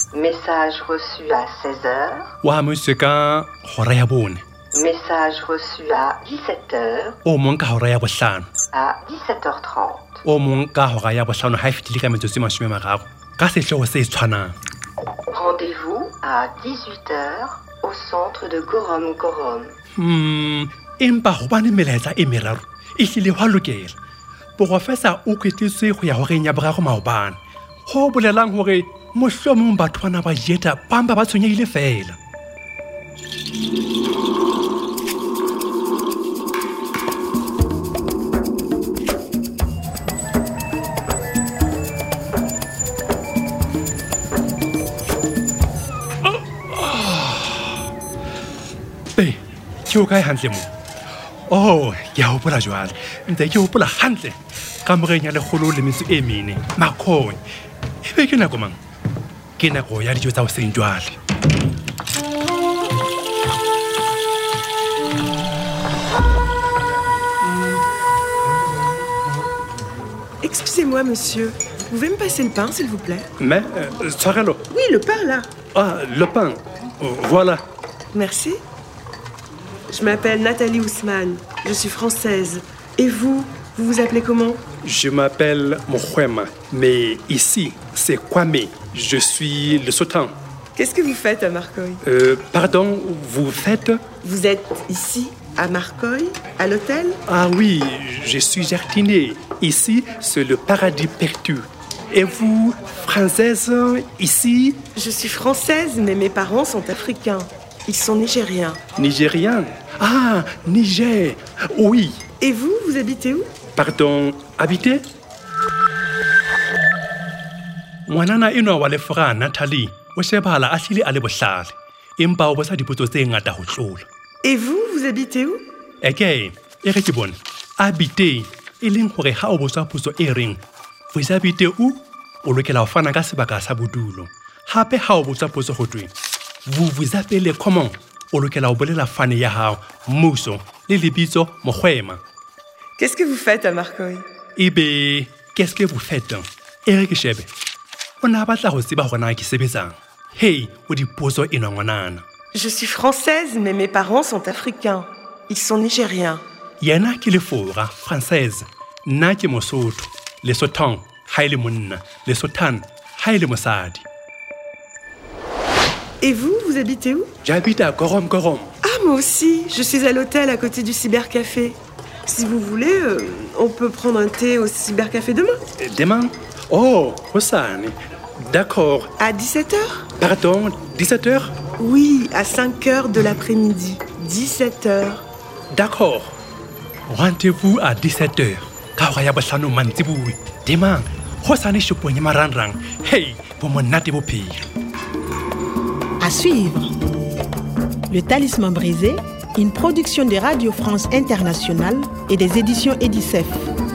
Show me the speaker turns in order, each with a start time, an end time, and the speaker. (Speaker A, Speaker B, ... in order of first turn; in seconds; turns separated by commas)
Speaker A: 0.1-2.3, Speaker B: 2.4-4.4, Speaker A: 4.7-7.2, Speaker B: 7.2-8.5, Speaker A: 8.7-10.2, Speaker B: 10.2-14.6, Speaker A: 15.3-19.7, Speaker B: 20.0-23.9, Speaker B: 24.6-32.2, Speaker B: 46.2-47.8, Speaker B: 49.1-50.7, Speaker B: 51.5-57.4, Speaker B: 58.0-58.8, Speaker B: 59.6-61.2, Speaker C: 70.4-73.3, Speaker B: 73.4-74.6, Speaker C: 74.7-75.5, Speaker B: 75.7-77.6, Speaker C: 78.1-78.6, Speaker C: 79.9-84.6, Speaker B: 84.8-90.3, Speaker C: 90.7-92.0, Speaker B: 92.0-94.0, Speaker C: 94.2-97.2, Speaker B: 97.3-104.8, Speaker C: 104.9-108.8, Speaker B: 109.0-112.2, Speaker C: 112.4-113.5, Speaker B: 113.8-115.0, Speaker B: 118.1-124.0, Speaker C: 124.4-125.6, Speaker B: 126.0-130.6, Speaker B: 131.1-136.1, Speaker B: 136.7-142.2, Speaker C: 143.0-144.2, Speaker B: 144.6-147.5, Speaker B: 148.2-152.2, Speaker C: 152.5-156.4, Speaker B: 156.8-164.0, Speaker C: 166.2-167.3, Speaker B: 167.4-168.7, Speaker C: 168.8-175.6, Speaker B: 175.8-179.1, Speaker C: 179.2-180.1, Speaker B: 180.2-181.5, Speaker C: 181.8-185.2, Speaker B: 185.7-186.3, Speaker B: 187.1-194.7, Speaker D: 196.2-196.9, Speaker D: 198.1-203.7